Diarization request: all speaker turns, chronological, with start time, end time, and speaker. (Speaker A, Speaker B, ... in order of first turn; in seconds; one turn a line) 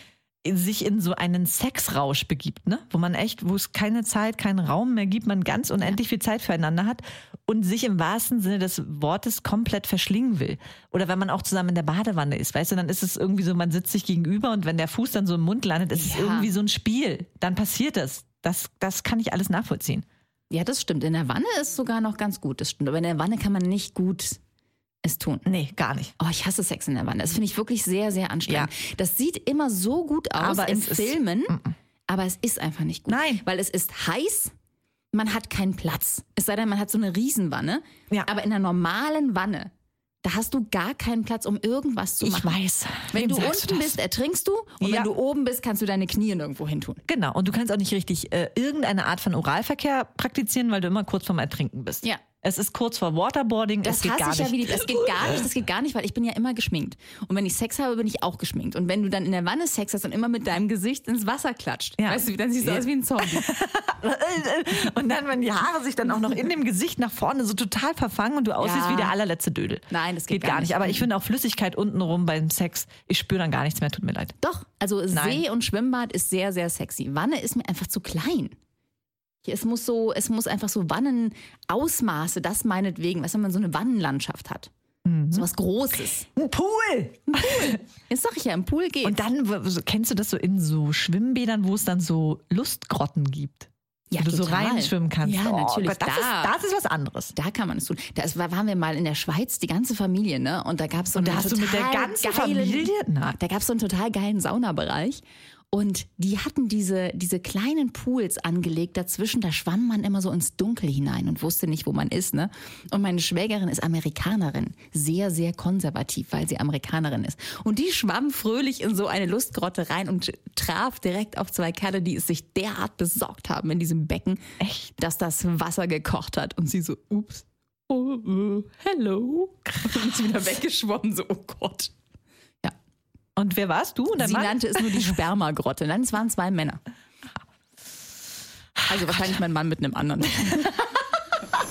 Speaker A: 0.4-20.1
Speaker B: 15.9-16.5
Speaker B: 20.5-24.4
Speaker B: 25.0-25.4
Speaker A: 25.4-26.1
Speaker B: 26.2-34.5
Speaker A: 30.4-31.7
Speaker A: 33.1-33.4
Speaker B: 35.1-39.7
Speaker B: 40.2-42.6
Speaker A: 42.2-44.0
Speaker B: 43.1-47.0
Speaker A: 44.8-45.1
Speaker A: 47.0-55.4
Speaker B: 53.8-63.5
Speaker A: 62.0-74.3
Speaker B: 68.6-69.1
Speaker B: 69.9-71.1
Speaker B: 74.4-78.5
Speaker A: 75.1-75.4
Speaker B: 79.4-84.7
Speaker A: 85.0-85.5
Speaker B: 85.3-86.3
Speaker A: 86.3-87.8
Speaker B: 87.3-89.2
Speaker A: 89.0-97.3
Speaker B: 94.1-96.5
Speaker B: 97.3-124.4
Speaker A: 101.1-103.4
Speaker A: 124.6-124.9
Speaker B: 125.0-131.9
Speaker A: 133.3-135.1
Speaker B: 134.2-136.8
Speaker B: 138.9-140.8